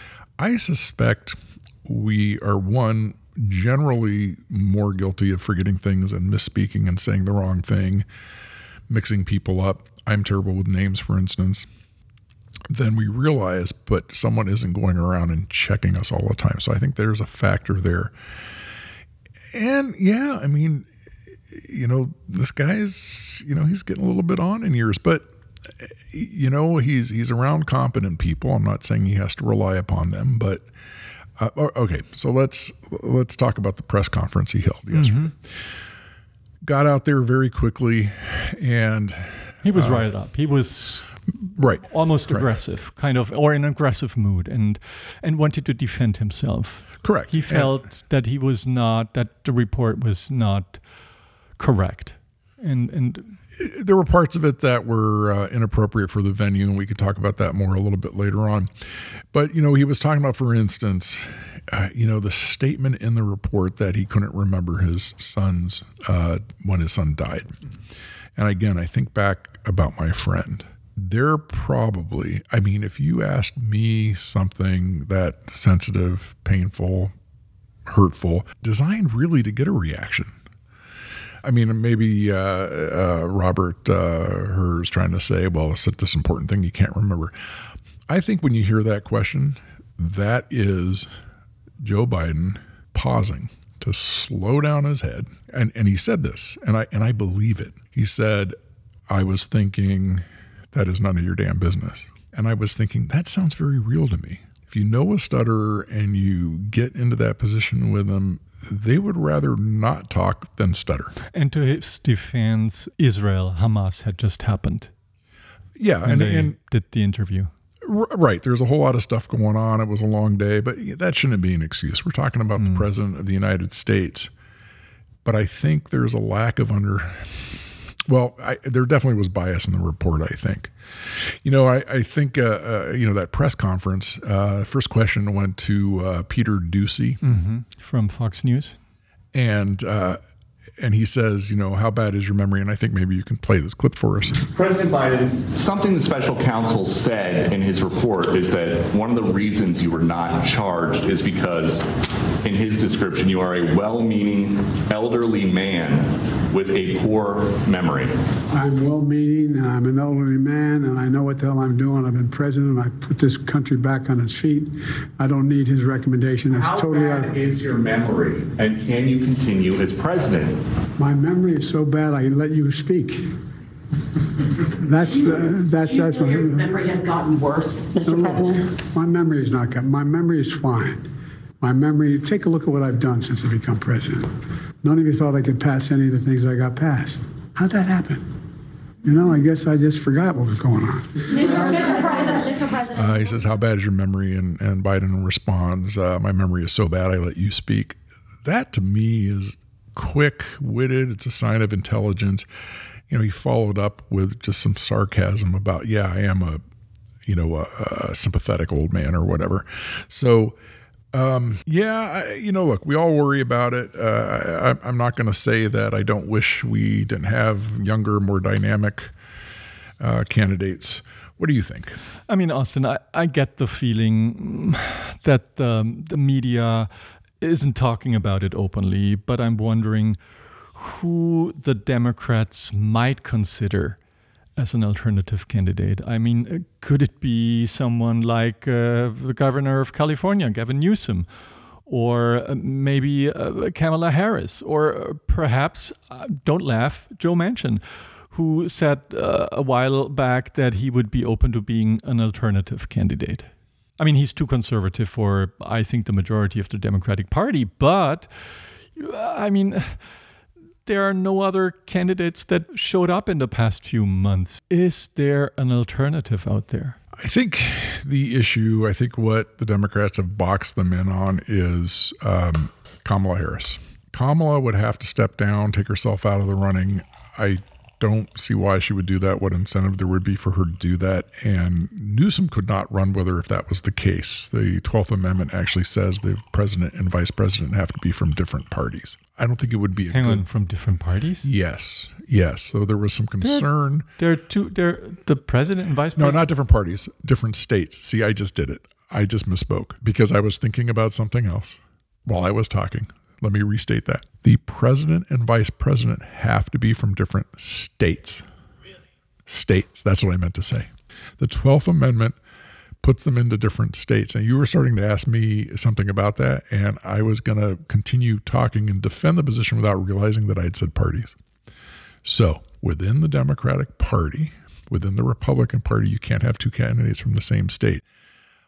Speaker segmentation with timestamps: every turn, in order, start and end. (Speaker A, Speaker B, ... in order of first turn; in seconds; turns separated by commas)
Speaker A: 0.4-8.0, Speaker A: 8.9-11.7, Speaker A: 12.7-18.1, Speaker A: 19.5-20.9, Speaker A: 21.5-30.6, Speaker A: 31.4-35.3, Speaker B: 34.9-35.3, Speaker A: 36.6-40.0, Speaker B: 39.6-41.1, Speaker A: 41.5-42.5, Speaker B: 41.8-50.8, Speaker A: 47.0-47.7, Speaker B: 51.6-53.3, Speaker A: 53.6-58.7, Speaker A: 59.3-67.6, Speaker A: 68.3-77.1, Speaker A: 77.9-80.3, Speaker A: 81.4-87.3, Speaker A: 88.1-91.1, Speaker A: 91.8-98.5, Speaker A: 99.1-111.1, Speaker B: 111.3-114.9, Speaker A: 115.8-116.5, Speaker B: 116.0-117.5, Speaker A: 117.8-124.3, Speaker B: 122.6-122.8, Speaker A: 125.2-137.2, Speaker B: 137.2-138.8, Speaker A: 139.3-140.2, Speaker A: 140.8-144.4, Speaker C: 144.4-151.9, Speaker C: 152.4-158.1, Speaker D: 158.5-167.3, Speaker C: 166.5-170.6, Speaker D: 171.0-173.3, Speaker D: 174.7-176.8, Speaker E: 175.8-178.6, Speaker D: 178.0-181.1, Speaker D: 181.6-184.3, Speaker D: 184.8-188.3, Speaker D: 189.0-192.3, Speaker E: 191.4-192.8, Speaker A: 192.9-202.4, Speaker A: 203.1-206.6, Speaker A: 207.2-210.6, Speaker A: 211.1-219.1, Speaker A: 220.0-222.0, Speaker B: 222.3-226.9, Speaker B: 227.4-230.2, Speaker B: 230.8-234.0, Speaker B: 234.6-241.2, Speaker B: 241.9-258.3, Speaker B: 258.9-260.0, Speaker B: 260.9-267.0, Speaker A: 267.2-290.4, Speaker B: 290.1-291.5, Speaker A: 291.4-294.1, Speaker B: 294.2-296.4, Speaker A: 296.1-308.4, Speaker A: 309.4-312.4, Speaker A: 313.0-321.4, Speaker A: 322.2-328.0